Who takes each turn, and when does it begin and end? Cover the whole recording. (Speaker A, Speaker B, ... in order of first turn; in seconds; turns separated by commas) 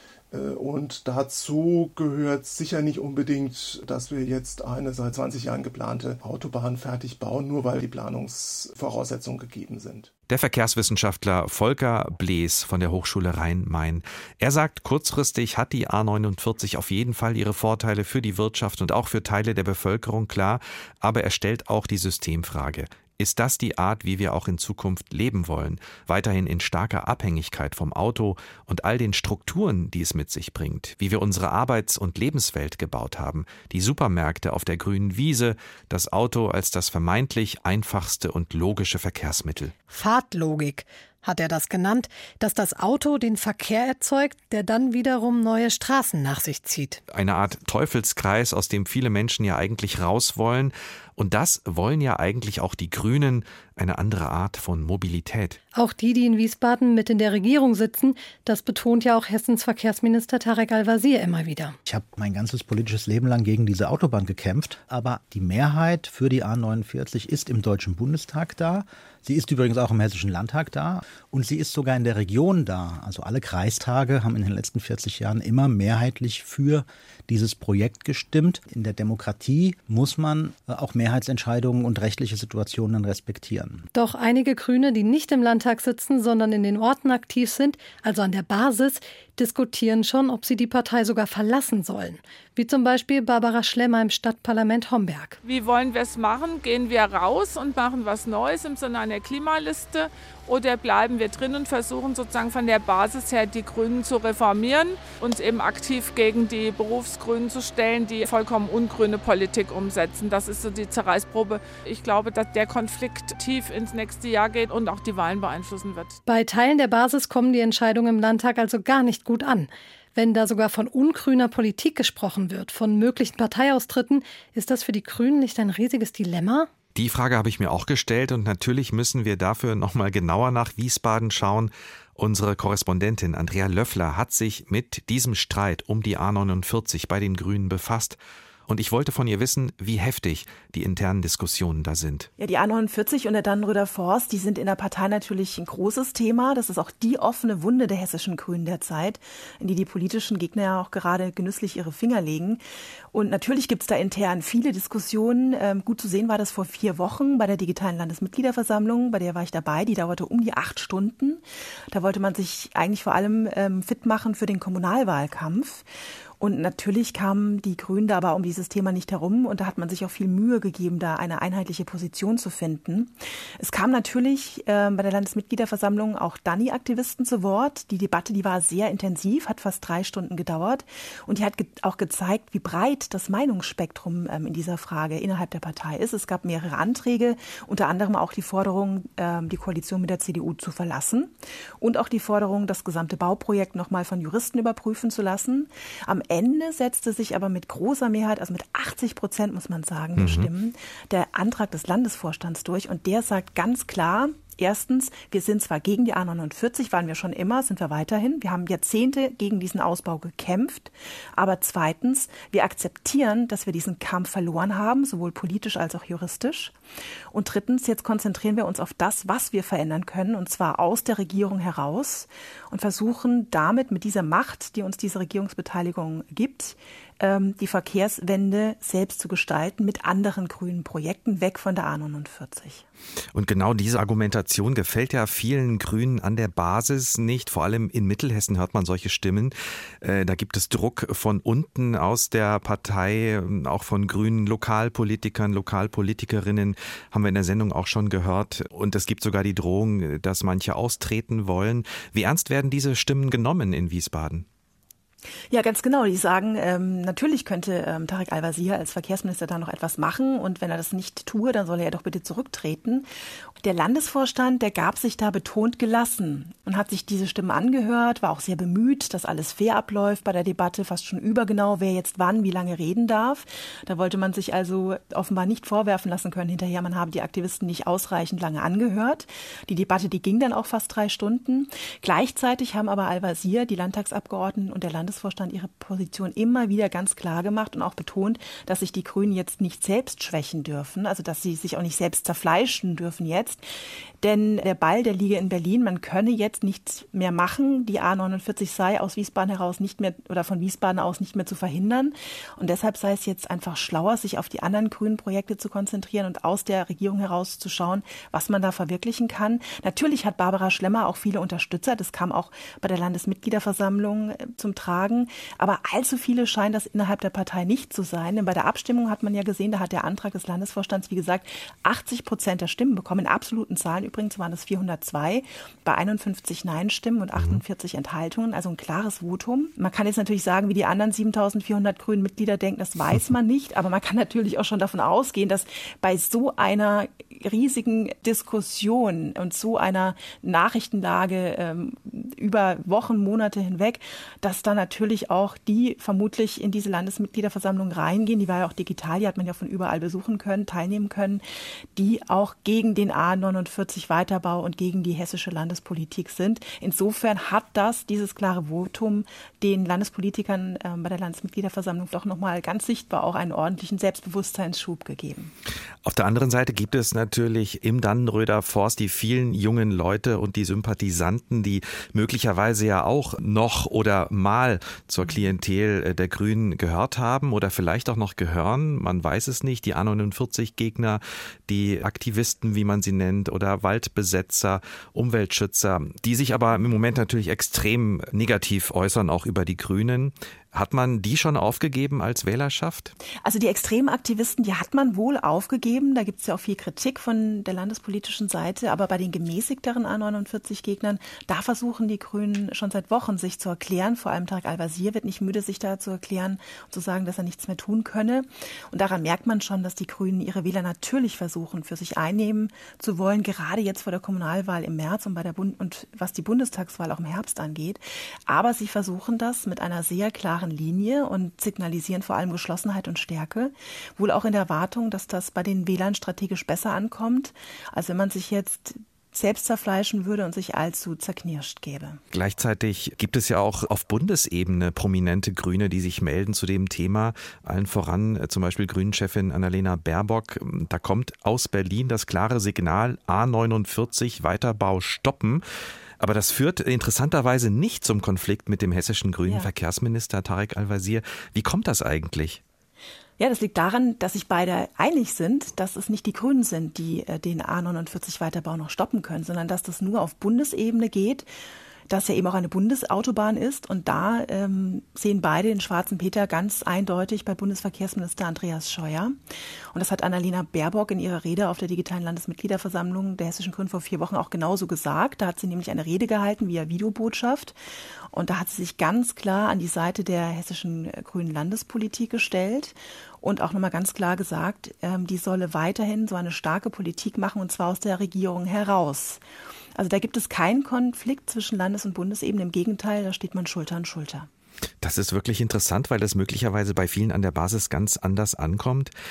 Speaker A: 0.3-10.1, Speaker B: 10.3-39.7, Speaker C: 39.9-47.0, Speaker B: 47.1-55.6, Speaker C: 55.7-61.8, Speaker D: 61.8-83.9, Speaker C: 83.9-95.4, Speaker E: 95.4-116.2, Speaker C: 116.2-126.7, Speaker B: 126.9-142.3, Speaker F: 142.4-152.6, Speaker F: 153.1-165.8, Speaker F: 166.4-216.7, Speaker B: 200.2-200.5, Speaker F: 217.3-232.8, Speaker B: 233.3-254.4, Speaker F: 255.5-263.1, Speaker F: 263.6-293.6, Speaker F: 294.2-351.4, Speaker B: 327.4-327.6, Speaker F: 351.9-365.5, Speaker B: 366.0-393.1, Speaker F: 393.4-432.2, Speaker B: 432.3-445.6, Speaker B: 446.2-452.6, Speaker F: 453.4-461.5, Speaker F: 462.1-469.4, Speaker F: 469.9-477.8, Speaker F: 478.3-489.4, Speaker F: 489.9-494.5, Speaker B: 495.0-499.1